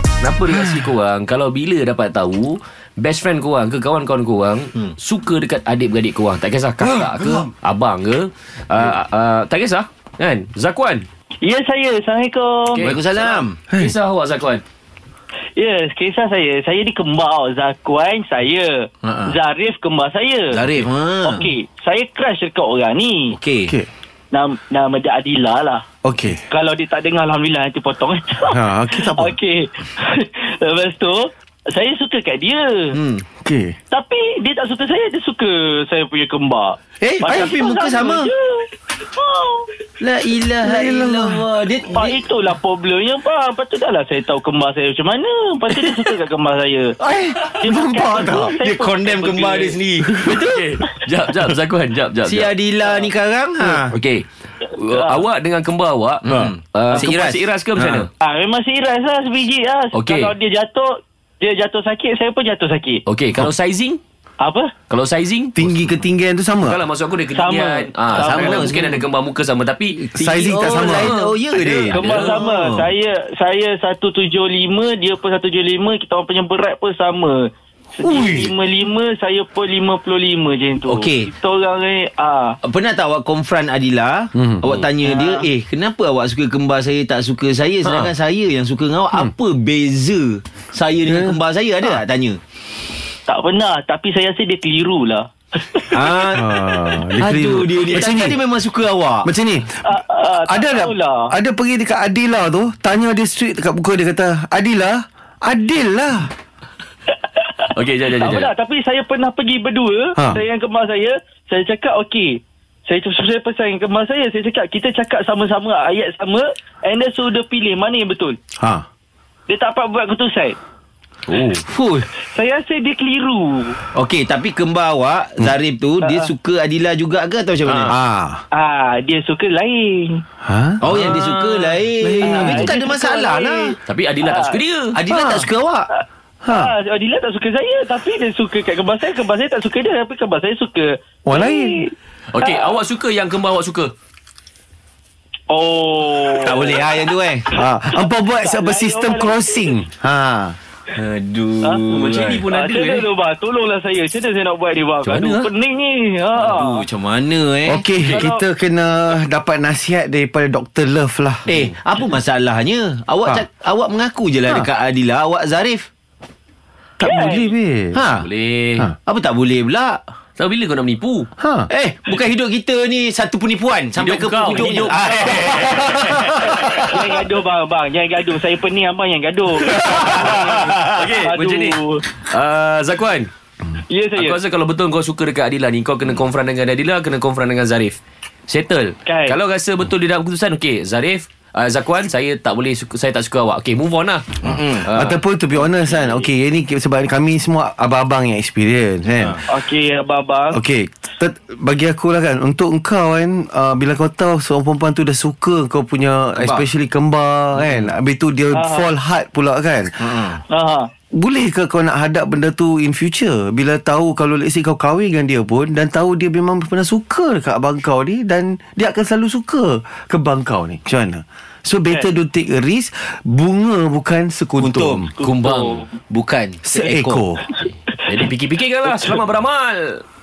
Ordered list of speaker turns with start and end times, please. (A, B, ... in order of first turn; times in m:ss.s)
0:00.2-0:11.1 A
0:06.8-0:07.5 B
0:11.4-0:12.9 C
0:12.7-0:14.6 A
0:12.8-0:13.6 D
0:15.6-0:20.6 C
0:19.0-0:19.3 D
0:20.5-0:21.5 D
0:21.2-0:23.4 C
0:23.3-0:23.7 D
0:24.3-0:33.0 C
0:26.0-0:26.4 B
0:28.4-0:29.4 B
0:32.9-0:33.2 D
0:33.4-0:33.8 B
0:33.9-0:39.7 C
0:37.0-0:38.3 D
0:40.0-0:42.2 D
0:40.6-0:41.4 B
0:41.9-0:49.8 C
0:47.0-0:48.6 B
0:48.6-0:50.3 D
0:50.1-0:52.5 A
0:52.2-0:53.9 D
0:53.8-0:58.1 A
0:56.2-0:58.1 D
0:58.2-1:03.0 C
0:59.9-1:00.3 A
1:03.0-1:04.0 A
1:04.4-1:04.7 C
1:04.9-1:05.6 A
1:05.6-1:06.8 B
1:06.6-1:10.0 A
1:07.3-1:08.8 C
1:08.1-1:09.0 D
1:10.0-1:12.9 D
1:10.1-1:11.2 B
1:10.8-1:12.4 A
1:11.9-1:22.6 C
1:18.0-1:18.5 D
1:20.8-1:21.3 D
1:22.6-1:32.4 D
1:24.4-1:24.7 B
1:25.0-1:25.4 C
1:31.1-1:31.4 B
1:33.3-1:36.2 C
1:35.9-1:36.6 D
1:36.3-1:38.4 B
1:37.2-1:39.3 D
1:39.2-1:46.3 B
1:39.8-1:41.3 C
1:47.1-1:58.4 C
1:47.7-1:48.5 A
1:50.2-1:50.4 B
1:58.6-1:58.8 B
1:59.5-2:00.6 C
2:01.3-2:01.6 A
2:01.7-2:02.1 D
2:02.2-2:03.8 C
2:03.9-2:07.9 D
2:06.0-2:06.3 C
2:07.6-2:07.9 A
2:07.9-2:08.4 B
2:08.5-2:10.2 C
2:10.4-2:11.4 B
2:10.8-2:13.8 D
2:12.0-2:12.8 B
2:12.2-2:14.6 C
2:13.8-2:15.0 A
2:14.9-2:15.9 D
2:15.1-2:15.5 B
2:15.9-2:22.8 C
2:16.4-2:16.7 B
2:21.2-2:21.8 B
2:22.3-2:23.9 A
2:25.5-2:26.8 C
2:26.4-2:27.5 D
2:27.5-2:30.6 B
2:27.9-2:29.7 C
2:30.9-2:32.5 D
2:31.9-2:33.0 A
2:32.5-2:36.8 C
2:35.0-2:35.5 A
2:36.3-2:37.9 D
2:37.6-2:41.5 B
2:38.0-2:38.4 C
2:41.5-2:45.9 D
2:47.0-2:48.0 B
2:47.0-2:47.5 C
2:47.9-2:48.3 D
2:48.2-2:48.9 A
2:49.0-2:50.0 D
2:50.4-2:51.3 A
2:51.4-2:51.7 B
2:51.7-2:57.0 D
2:53.9-2:56.8 A
2:54.5-2:55.0 C
2:55.6-2:56.5 B
2:56.6-3:02.0 C
2:59.7-3:03.3 A
3:03.9-3:04.4 C
3:04.2-3:15.2 A
3:09.0-3:09.4 C
3:14.4-3:14.9 D
3:14.8-3:19.4 B
3:19.5-3:20.6 C
3:20.5-3:30.1 B
3:26.4-3:26.7 D
3:27.6-3:27.9 D
3:28.5-3:28.9 C
3:30.0-3:30.4 D
3:30.5-3:30.9 C
3:31.1-3:45.1 B
3:44.6-3:47.2 D
3:45.2-3:45.8 C
3:45.2-3:45.8 A
3:46.6-3:47.5 B
3:48.0-3:50.0 A